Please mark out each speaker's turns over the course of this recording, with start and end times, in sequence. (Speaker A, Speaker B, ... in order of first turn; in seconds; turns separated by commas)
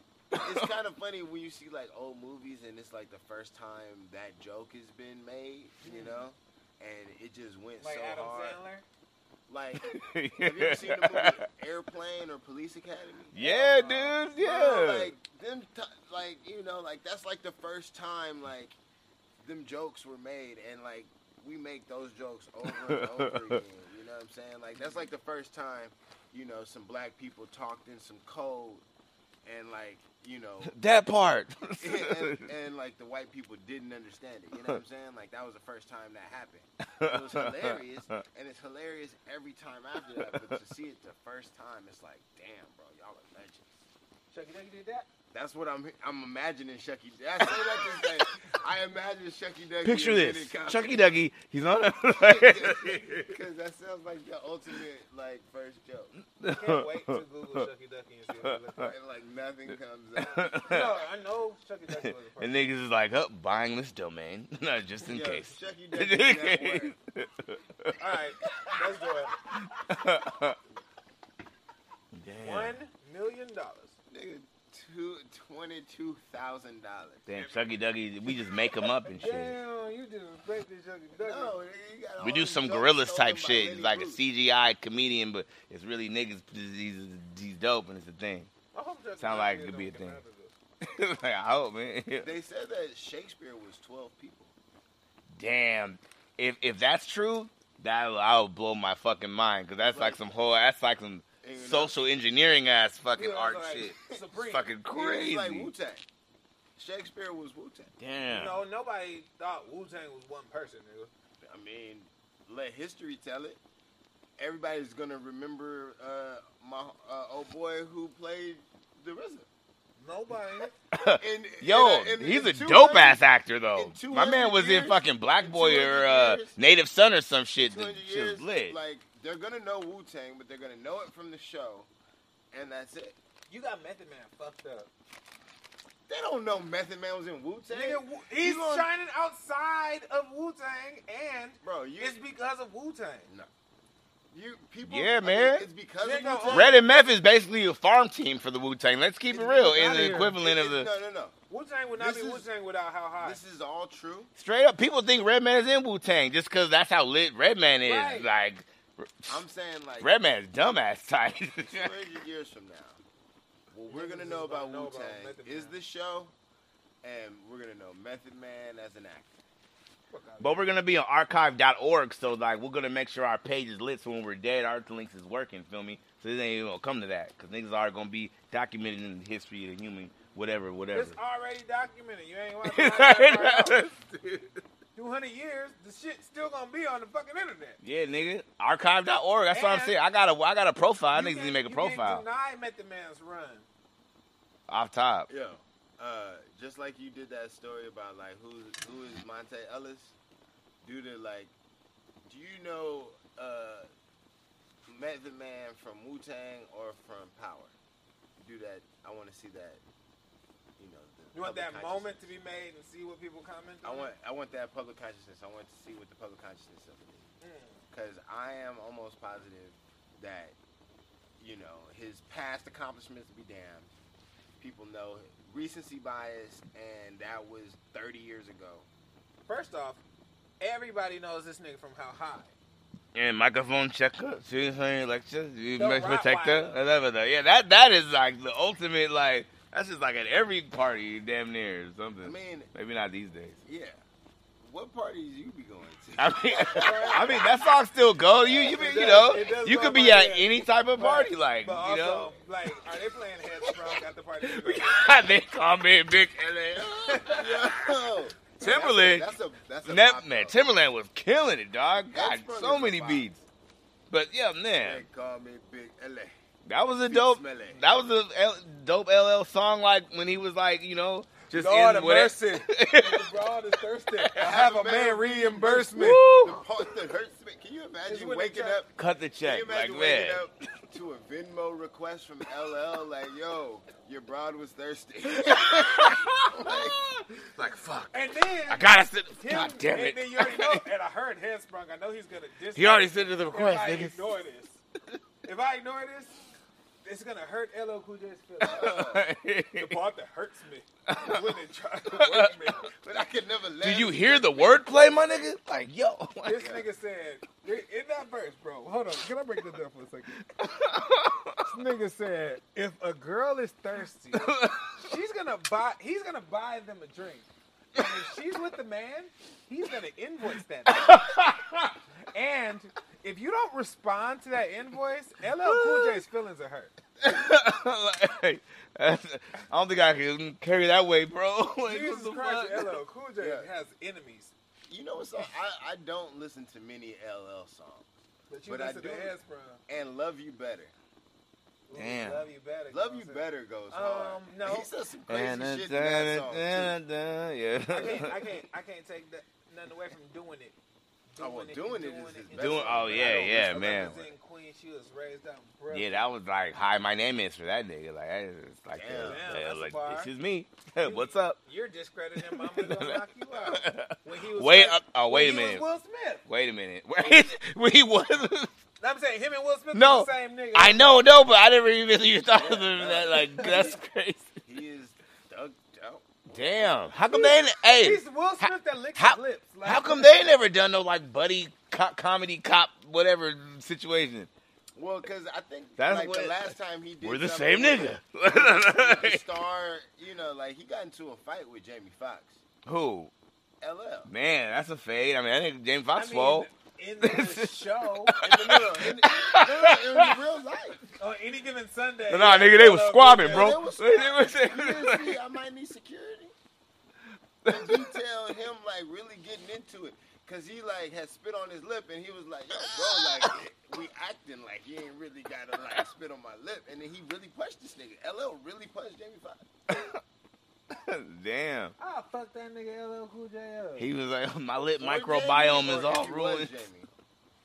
Speaker A: 0.3-8.6, Speaker B: 5.8-6.2, Speaker B: 7.8-8.8, Speaker A: 9.5-13.3, Speaker C: 9.8-11.4, Speaker B: 13.3-14.2, Speaker C: 13.3-15.1, Speaker A: 14.3-18.8, Speaker A: 19.4-28.8, Speaker C: 22.7-23.6, Speaker A: 29.4-30.7, Speaker C: 30.6-32.5, Speaker A: 31.8-43.7, Speaker C: 36.9-38.2, Speaker B: 44.3-45.1, Speaker A: 45.3-51.1, Speaker C: 49.8-53.2, Speaker A: 52.1-56.1, Speaker C: 56.4-57.6, Speaker B: 56.5-58.9, Speaker A: 58.8-60.8, Speaker C: 60.1-61.0, Speaker B: 60.5-62.7, Speaker C: 62.0-68.7, Speaker A: 65.0-66.9, Speaker B: 67.9-69.3, Speaker C: 69.5-70.6, Speaker C: 72.1-72.8, Speaker B: 72.4-73.9, Speaker A: 74.1-77.2, Speaker C: 77.3-79.5, Speaker B: 77.3-78.0, Speaker B: 79.1-81.6, Speaker A: 81.2-84.2, Speaker C: 82.2-88.5, Speaker B: 88.7-90.5, Speaker C: 89.2-90.2, Speaker C: 90.8-92.3, Speaker A: 92.2-94.5, Speaker C: 95.3-105.7, Speaker A: 99.8-100.2, Speaker A: 101.4-102.0, Speaker B: 103.1-104.7, Speaker A: 104.9-106.0, Speaker A: 106.8-107.9, Speaker C: 108.0-108.6, Speaker B: 108.3-111.1, Speaker A: 111.4-113.6, Speaker A: 114.4-119.5, Speaker B: 120.0-120.7, Speaker C: 120.9-128.8, Speaker A: 121.2-126.6, Speaker A: 127.6-131.9, Speaker A: 132.5-133.2, Speaker B: 133.5-134.9, Speaker A: 136.1-138.9, Speaker B: 137.7-143.3, Speaker A: 141.6-142.2, Speaker A: 144.3-146.8, Speaker C: 144.8-145.7, Speaker B: 146.0-146.8, Speaker C: 146.5-150.9, Speaker B: 149.3-150.4, Speaker A: 150.3-151.3, Speaker B: 151.5-153.4, Speaker A: 152.0-152.5, Speaker A: 153.2-154.3, Speaker C: 154.4-159.4, Speaker B: 157.8-158.3, Speaker A: 159.3-160.1, Speaker C: 160.0-161.9, Speaker A: 161.6-163.0, Speaker A: 163.7-166.3, Speaker B: 163.9-165.8, Speaker A: 167.0-169.3, Speaker B: 170.1-170.8, Speaker C: 170.4-181.2, Speaker B: 180.9-183.8, Speaker C: 182.6-184.5, Speaker B: 184.9-187.8, Speaker C: 187.8-192.2, Speaker B: 189.5-190.0, Speaker B: 191.1-193.7, Speaker C: 194.7-195.3, Speaker A: 195.3-200.1, Speaker A: 200.8-201.5, Speaker A: 202.2-203.9, Speaker A: 204.8-207.7, Speaker A: 208.4-209.8, Speaker A: 210.8-212.3, Speaker B: 211.3-214.1, Speaker A: 213.8-217.2, Speaker B: 217.4-217.8, Speaker A: 217.9-220.6, Speaker A: 221.4-223.9, Speaker A: 224.6-228.9, Speaker B: 229.5-230.0, Speaker B: 230.6-232.5, Speaker C: 233.1-243.6, Speaker B: 235.8-236.8, Speaker A: 242.2-242.7, Speaker A: 243.7-244.0, Speaker A: 244.6-247.5, Speaker C: 246.2-252.3, Speaker B: 246.6-247.4, Speaker B: 248.5-255.2, Speaker A: 248.5-249.1, Speaker C: 254.4-257.5, Speaker B: 257.0-257.5, Speaker A: 257.2-260.6, Speaker C: 258.6-259.3, Speaker C: 259.8-263.4, Speaker A: 262.0-263.3, Speaker C: 264.1-265.0, Speaker A: 264.8-266.3, Speaker C: 266.6-273.3, Speaker A: 267.1-267.8, Speaker B: 271.5-276.3, Speaker C: 274.2-274.5, Speaker A: 274.4-278.9, Speaker C: 275.9-276.8, Speaker B: 278.1-278.8, Speaker C: 278.9-280.4, Speaker A: 279.4-287.0, Speaker C: 285.5-286.6, Speaker B: 286.6-287.5, Speaker C: 287.5-290.8, Speaker B: 288.1-294.8, Speaker C: 292.7-294.3, Speaker B: 295.4-296.4, Speaker B: 297.0-299.0, Speaker C: 298.6-300.0, Speaker A: 298.6-299.3, Speaker B: 299.8-302.9, Speaker C: 301.1-301.6, Speaker C: 302.1-302.5, Speaker A: 303.0-305.2, Speaker C: 303.8-306.7, Speaker B: 306.4-310.4, Speaker A: 306.6-306.9, Speaker C: 310.4-311.7, Speaker B: 311.6-321.3, Speaker C: 314.3-315.0, Speaker C: 320.9-321.9, Speaker B: 322.3-326.9, Speaker C: 325.6-326.2, Speaker C: 327.2-333.0, Speaker B: 331.8-334.5, Speaker A: 333.4-333.7, Speaker A: 334.9-338.1, Speaker B: 338.5-339.8, Speaker A: 338.7-339.3, Speaker A: 339.9-340.9, Speaker B: 341.9-344.9, Speaker C: 341.9-342.4, Speaker A: 342.9-347.0, Speaker C: 345.3-348.5, Speaker B: 347.9-350.8, Speaker B: 351.3-356.3, Speaker A: 351.4-354.3, Speaker C: 352.6-354.1, Speaker C: 355.9-361.6, Speaker A: 358.9-359.5, Speaker B: 359.2-360.3, Speaker B: 361.0-366.4, Speaker C: 362.4-365.8, Speaker C: 366.5-368.7, Speaker B: 369.0-371.1, Speaker C: 369.9-374.6, Speaker A: 372.5-374.0, Speaker B: 373.5-373.9, Speaker A: 374.6-376.3, Speaker C: 376.5-384.5, Speaker B: 377.3-380.5, Speaker A: 384.9-392.6, Speaker C: 386.0-386.7, Speaker C: 387.2-389.4, Speaker C: 392.9-393.3, Speaker A: 393.8-394.3, Speaker C: 394.3-396.7, Speaker B: 396.1-398.5, Speaker C: 397.2-400.4, Speaker A: 398.4-401.0, Speaker B: 401.2-403.8, Speaker C: 402.3-405.4, Speaker A: 403.4-406.5, Speaker C: 407.6-408.1, Speaker A: 407.6-419.6, Speaker C: 412.9-413.5, Speaker C: 419.9-420.2, Speaker C: 420.9-421.9, Speaker B: 422.0-424.1, Speaker C: 424.0-426.7, Speaker A: 425.0-427.1